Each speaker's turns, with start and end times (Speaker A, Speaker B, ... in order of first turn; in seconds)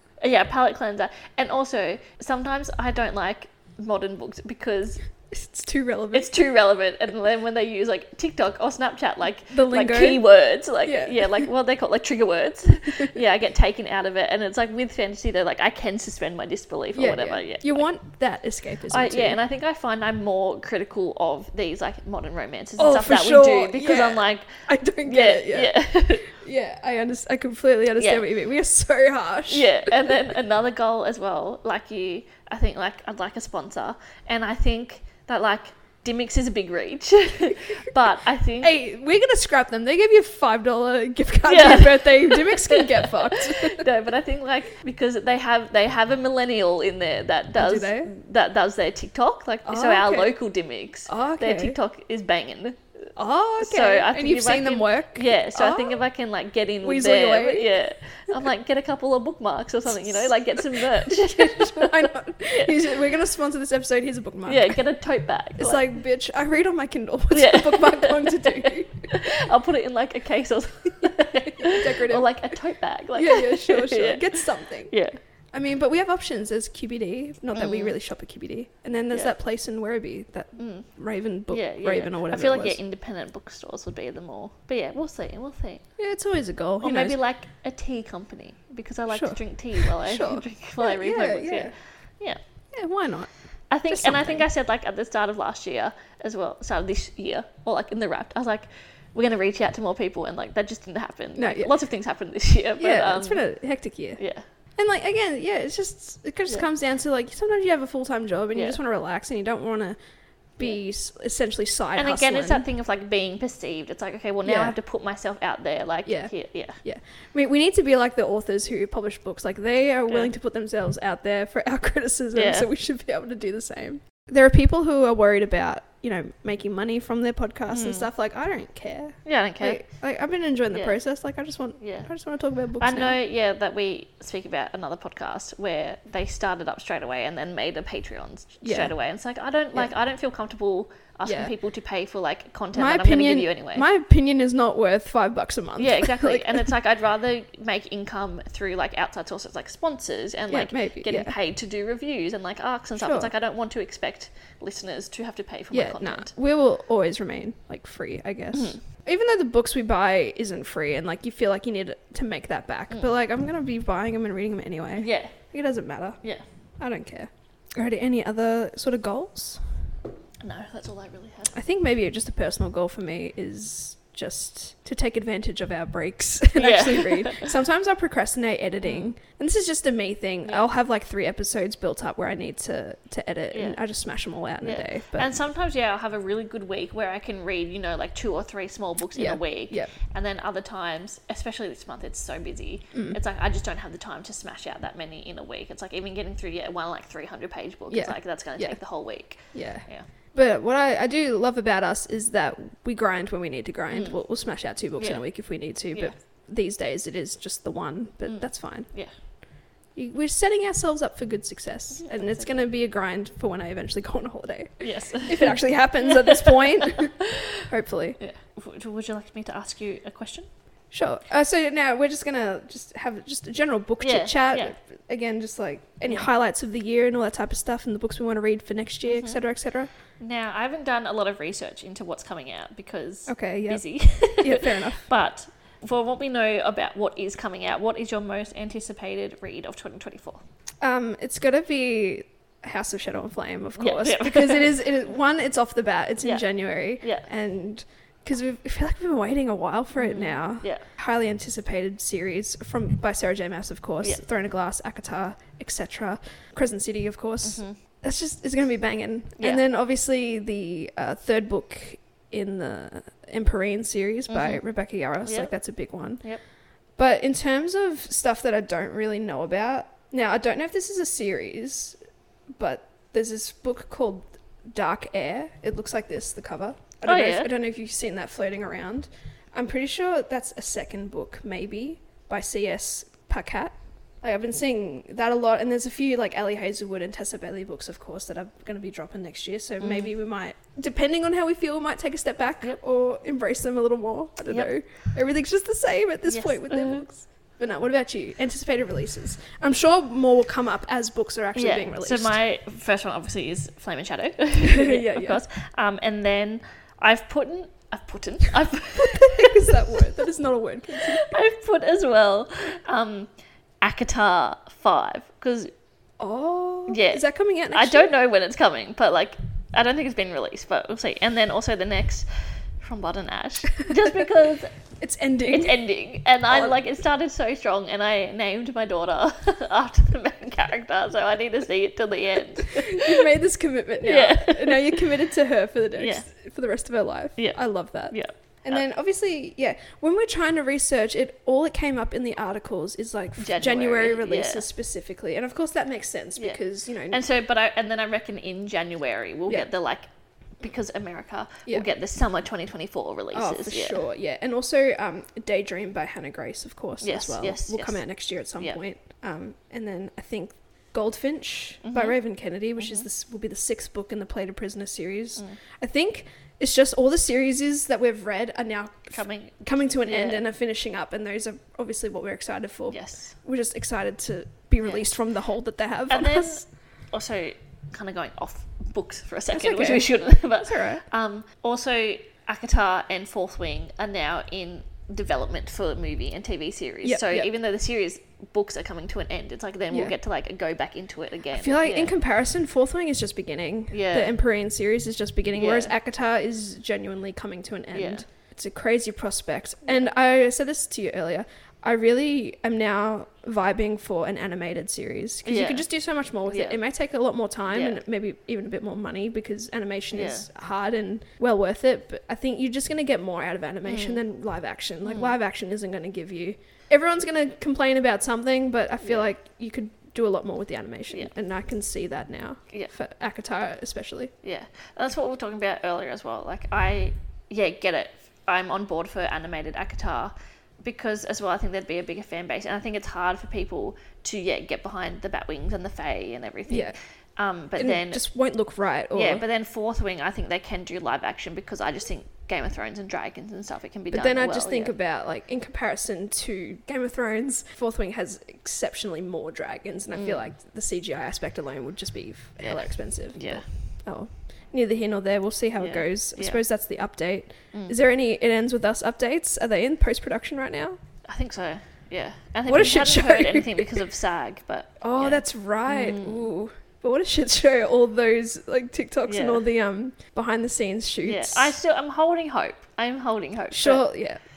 Speaker A: 0.2-5.0, 6.1-17.9, 18.9-26.3, 28.0-28.2, 29.5-38.7, 41.5-52.8, 53.6-62.8, 64.5-65.9, 67.3-75.2, 77.5-77.9, 80.6-80.9, 81.5-85.8, 86.8-92.4, 93.7-103.4, 104.2-104.4, 108.5-108.8, 112.0-116.8, 122.3-122.7, 127.7-128.1, 129.2-129.8, 130.7-131.0, 131.8-132.1, 132.8-143.9, 145.8-156.3, 158.5-158.8, 165.0-165.4, 170.4-171.6, 176.6-177.5, 178.8-179.1, 183.5-183.8, 184.6-200.1, 203.9-204.2, 205.0-205.2, 208.3-209.1, 212.0-212.5, 214.8-217.6, 218.2-220.5, 224.0-224.7, 229.1-229.4, 230.2-240.4, 243.8-244.8, 247.0-247.3, 250.0-250.8, 257.4-257.8, 264.3-264.6, 265.2-265.5, 277.1-277.5, 289.8-290.1, 296.3-297.1, 301.6-310.0, 311.2-313.3, 313.8-315.7, 316.9-322.3, 322.8-324.7, 325.5-333.3, 334.0-335.1, 336.0-336.2, 337.4-338.8, 343.4-344.6, 346.4-350.1, 350.6-354.0, 357.0-358.0, 361.8-362.2, 362.8-363.1, 369.1-370.4, 372.9-373.3, 376.1-392.1, 393.9-394.3, 395.6-395.9, 397.9-398.2, 405.4-405.9, 406.5-406.8, 407.7-408.0, 410.1-410.5, 413.9-414.2, 415.1-415.4, 424.4-438.2, 439.1-444.9, 450.1-450.4, 452.6-453.6, 455.8-456.6, 461.2-466.4, 469.3-469.6, 471.2-474.1
Speaker B: 5.3-6.3, 9.5-10.2, 10.8-11.2, 16.9-19.4, 22.8-29.9, 38.6-43.9, 47.5-48.1, 49.6-50.4, 51.1-51.8, 53.2-56.0, 56.8-57.8, 59.9-64.8, 65.6-69.1, 71.6-72.3, 73.2-74.9, 75.5-82.8, 86.0-87.2, 89.1-91.7, 92.7-93.3, 93.9-94.5, 101.4-101.8, 102.8-104.2, 104.8-110.0, 110.6-112.7, 114.4-114.8, 116.1-133.2, 138.6-138.9, 141.2-141.5, 142.7-146.7, 150.5-151.3, 153.0-153.3, 155.7-166.2, 166.8-169.7, 171.5-185.3, 189.2-189.9, 197.9-198.8, 199.5-208.9, 209.9-218.2, 220.9-229.9, 233.3-235.1, 240.8-266.3, 267.0-272.0, 272.5-302.4, 304.6-305.4, 309.0-311.4, 316.2-318.1, 323.9-324.2, 325.0-325.8, 326.5-326.8, 332.7-347.2, 353.3-376.6, 379.5-381.0, 387.0-387.5, 391.5-424.3, 436.7-437.0, 437.8-439.4, 444.1-461.0, 462.7-464.0, 465.0-471.8, 473.7-474.4